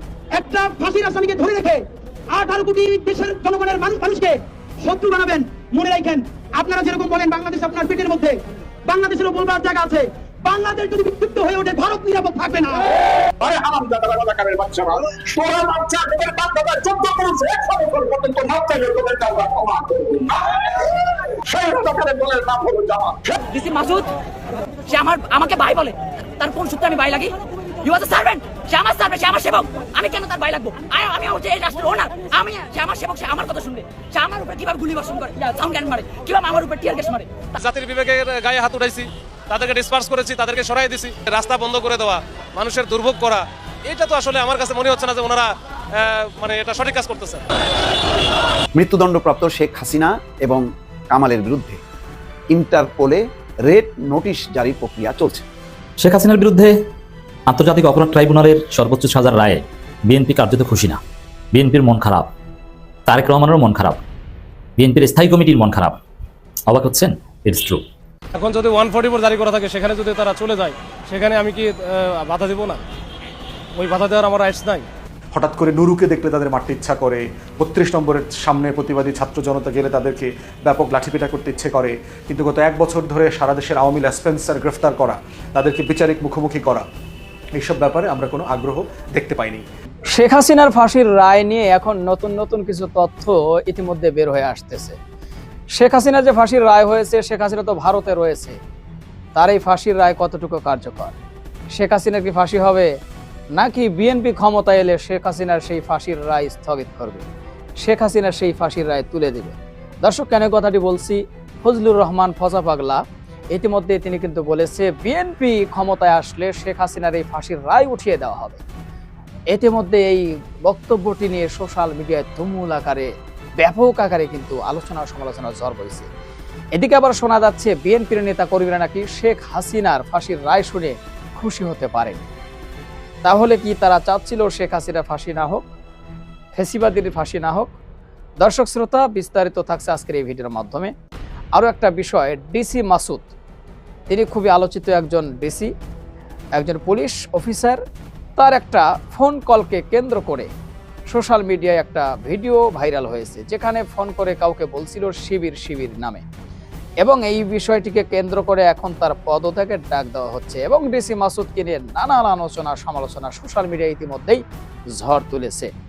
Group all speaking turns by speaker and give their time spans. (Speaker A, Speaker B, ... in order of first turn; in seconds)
Speaker A: 0.3-8.3, 8.9-12.9
Speaker B: 13.4-20.9, 21.5-23.4
Speaker C: 23.5-24.1, 24.9-37.4
Speaker D: 37.6-47.4, 68.4-72.8, 73.8-74.9
Speaker E: 48.8-51.8, 52.5-55.5
Speaker F: 56.0-56.7, 57.5-61.0, 61.5-62.3, 63.1-64.0, 64.8-66.0, 66.7-67.8
Speaker G: 75.3-86.8, 87.6-89.7
Speaker H: 90.1-95.0, 95.8-98.6, 99.4-101.2, 101.7-102.9, 103.6-107.2, 107.8-113.0, 113.5-118.6, 119.5-126.1, 126.8-132.2, 133.2-135.6, 136.6-137.8, 138.4-140.9, 141.6-143.3, 144.1-145.7, 146.6-147.8, 148.4-150.5, 151.1-156.2, 157.0-164.4, 165.0-165.7